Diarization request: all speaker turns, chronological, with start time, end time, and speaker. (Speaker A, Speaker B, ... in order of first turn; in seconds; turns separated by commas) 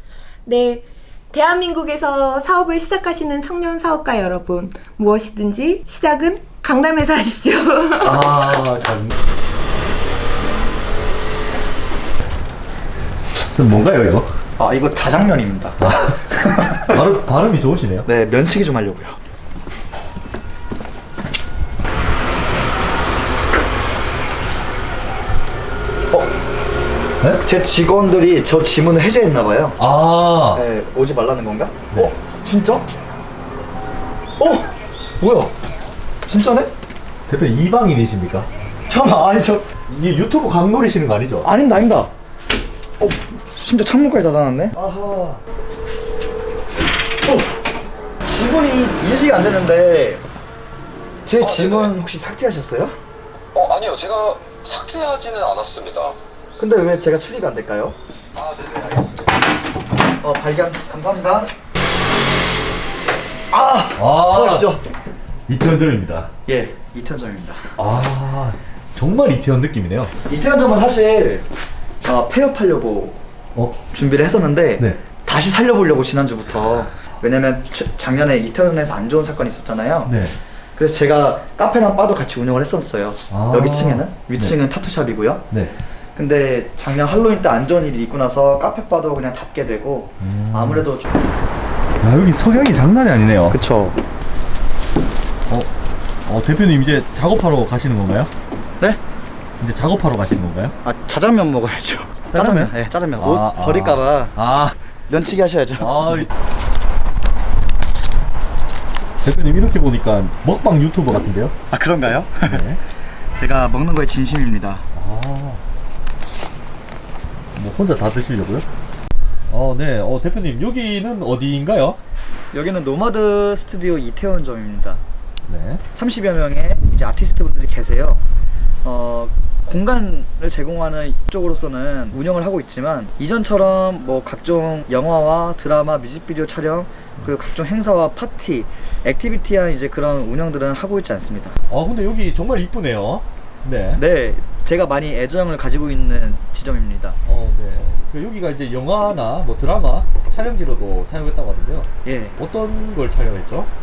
Speaker A: 0.5-8.2, Speaker B: 8.0-9.1, Speaker B: 13.3-14.3, Speaker C: 14.6-16.9, Speaker B: 15.8-16.2, Speaker B: 16.8-18.1, Speaker C: 18.1-19.2, Speaker C: 27.4-29.8, Speaker B: 29.8-30.7, Speaker C: 30.5-32.9, Speaker C: 34.4-34.7, Speaker C: 35.2-35.5, Speaker C: 36.3-36.7, Speaker B: 37.3-38.5, Speaker C: 38.9-39.7, Speaker B: 39.9-41.5, Speaker C: 41.4-42.1, Speaker C: 43.0-45.4, Speaker C: 47.2-47.5, Speaker C: 48.2-50.2, Speaker C: 51.2-53.0, Speaker D: 51.4-51.9, Speaker D: 53.5-56.2, Speaker C: 56.6-58.0, Speaker D: 58.4-59.4, Speaker C: 60.2-61.5, Speaker C: 63.5-64.8, Speaker B: 64.0-64.7, Speaker B: 65.5-66.3, Speaker C: 66.5-67.7, Speaker B: 67.8-70.1, Speaker C: 70.3-71.5, Speaker C: 72.0-73.2, Speaker B: 73.5-73.8, Speaker C: 73.9-80.2, Speaker B: 80.1-80.4, Speaker C: 80.8-85.5, Speaker B: 83.3-84.5, Speaker C: 86.2-91.2, Speaker B: 90.2-90.9, Speaker B: 92.0-93.6, Speaker C: 93.5-94.0, Speaker B: 96.3-98.3, Speaker B: 99.6-100.8, Speaker C: 100.8-104.4, Speaker B: 102.3-104.8, Speaker C: 105.1-106.2, Speaker B: 105.8-106.3, Speaker B: 109.2-111.6, Speaker C: 111.7-112.6, Speaker B: 112.4-112.8, Speaker C: 113.3-114.9, Speaker B: 114.9-115.6, Speaker B: 117.5-118.7, Speaker B: 119.5-122.0, Speaker C: 122.5-125.0, Speaker B: 125.5-125.8, Speaker C: 126.0-128.2, Speaker C: 128.8-141.6, Speaker B: 141.7-144.0, Speaker C: 144.0-147.2, Speaker B: 147.3-153.7, Speaker C: 152.1-152.4